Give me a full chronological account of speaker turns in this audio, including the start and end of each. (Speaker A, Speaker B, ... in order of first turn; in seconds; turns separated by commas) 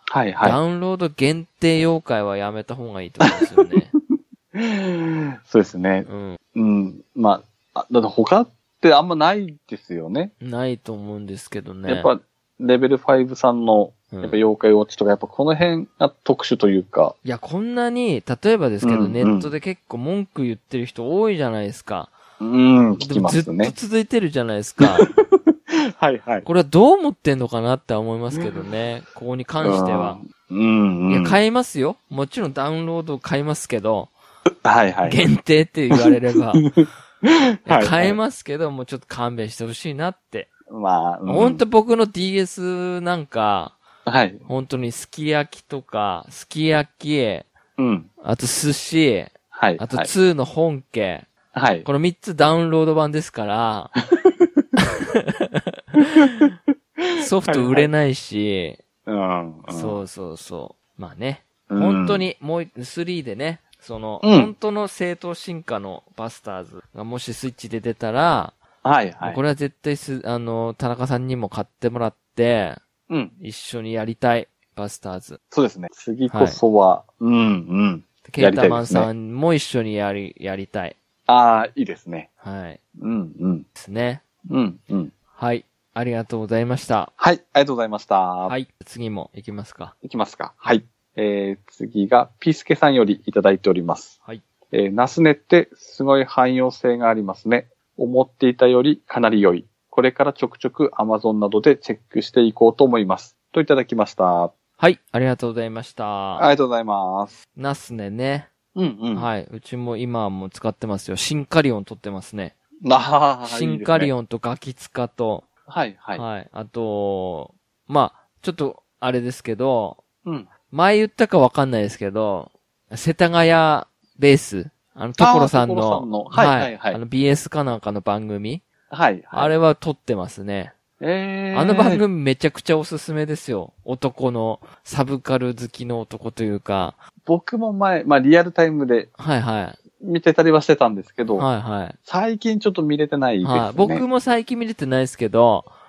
Speaker A: 0.1-0.6, Speaker B: 0.4-3.9, Speaker A: 3.9-10.3, Speaker B: 6.1-6.4, Speaker B: 10.4-12.1, Speaker A: 11.9-17.2, Speaker B: 14.1-14.4, Speaker B: 17.2-22.1, Speaker A: 18.8-19.5, Speaker A: 22.4-23.8, Speaker B: 23.0-25.1, Speaker A: 25.1-25.4, Speaker A: 26.0-26.5, Speaker B: 26.4-30.2, Speaker A: 29.6-31.4, Speaker B: 31.1-34.1, Speaker A: 34.6-35.2, Speaker B: 35.0-36.6, Speaker A: 36.6-38.2, Speaker B: 37.7-40.5, Speaker A: 40.7-41.6, Speaker B: 41.3-43.8, Speaker A: 44.1-44.4, Speaker B: 44.5-47.5, Speaker A: 47.8-48.1, Speaker B: 48.2-51.3, Speaker A: 49.5-50.1, Speaker A: 51.5-51.9, Speaker B: 51.8-53.9, Speaker B: 54.8-56.5, Speaker B: 57.2-58.8, Speaker A: 57.4-57.9, Speaker A: 59.1-60.0, Speaker B: 59.7-68.6, Speaker A: 61.7-62.3, Speaker A: 64.2-64.5, Speaker A: 68.8-69.4, Speaker B: 69.2-72.8, Speaker A: 73.1-73.3, Speaker B: 73.4-75.4, Speaker A: 75.5-79.1, Speaker B: 76.3-76.6, Speaker B: 78.2-81.0, Speaker A: 81.3-82.3, Speaker B: 82.4-82.8, Speaker A: 83.0-83.7, Speaker B: 83.8-84.2, Speaker A: 84.5-85.1, Speaker B: 85.3-87.1, Speaker A: 87.2-88.5, Speaker B: 88.5-89.9, Speaker A: 90.0-94.2, Speaker A: 94.7-104.5, Speaker B: 104.8-106.5, Speaker A: 106.4-107.4, Speaker B: 107.6-108.5, Speaker A: 108.8-109.3, Speaker B: 109.1-112.5, Speaker A: 112.8-114.1, Speaker B: 113.4-115.5, Speaker A: 115.7-116.2, Speaker B: 116.2-120.0, Speaker A: 120.2-120.5, Speaker B: 120.7-128.6, Speaker A: 125.2-127.0, Speaker A: 128.9-129.5, Speaker B: 129.3-130.7, Speaker A: 131.0-132.0, Speaker B: 131.5-137.0, Speaker A: 137.3-139.1, Speaker B: 139.2-139.8, Speaker A: 140.0-141.5, Speaker B: 141.3-142.0, Speaker A: 142.1-144.1, Speaker B: 143.4-145.7